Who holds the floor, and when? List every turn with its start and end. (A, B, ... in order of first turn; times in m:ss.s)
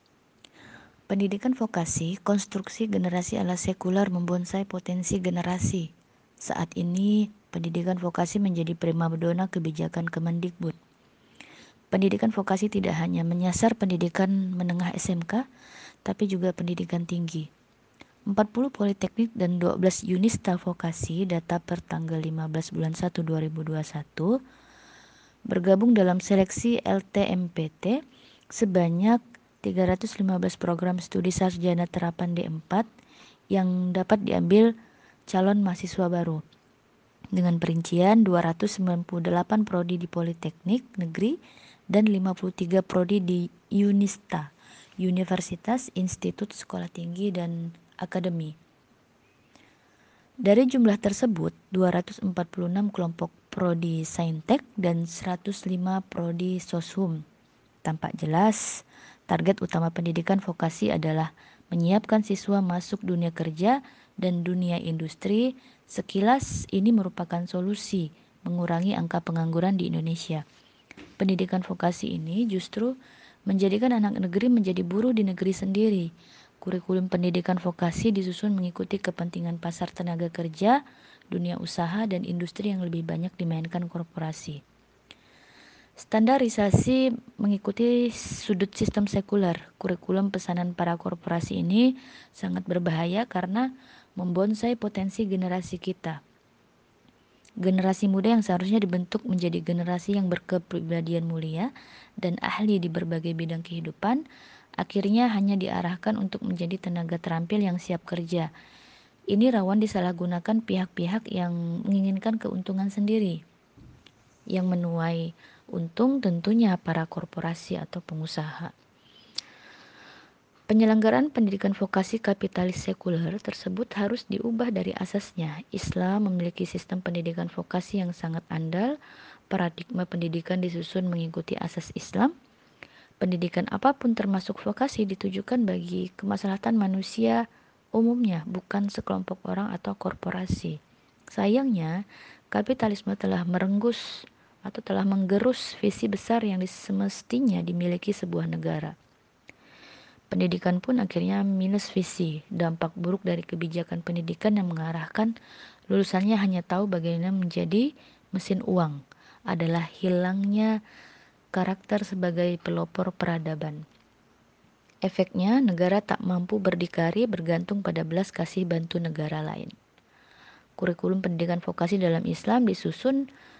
0:01.1-0:05.9 A
0:06.4-0:10.8 A
0:11.9-0:15.4 A
0:16.0-0:17.5 A
0:18.3-0:24.4 A
0:25.5-0:28.0 A
0:28.5-0:32.8 A
0:33.5-0:34.7 A
0:35.3-0:36.4 A
0:37.3-0:41.4 A
0:41.9-0:44.5 A
0:45.0-0:48.5 A
0:50.4-0:57.2 A
0:57.8-0:58.6 A
0:59.3-1:10.4 A
1:11.2-1:13.0 A
1:13.5-1:16.1 A
1:16.6-1:20.8 A
1:21.3-1:24.6 A
1:26.0-1:36.2 A
1:37.6-1:44.2 A
1:44.8-1:48.5 A
1:49.3-1:53.4 A
1:54.5-1:58.7 A
2:00.7-2:09.0 A
2:09.5-2:12.3 A
2:13.2-2:17.4 A
2:17.9-2:20.8 A
2:21.3-2:22.0 A
2:22.5-2:28.9 A
2:30.3-2:35.3 A
2:35.9-2:39.0 A
2:39.5-2:40.7 A
2:41.5-2:43.8 A
2:45.0-2:49.7 A
2:50.8-2:53.2 A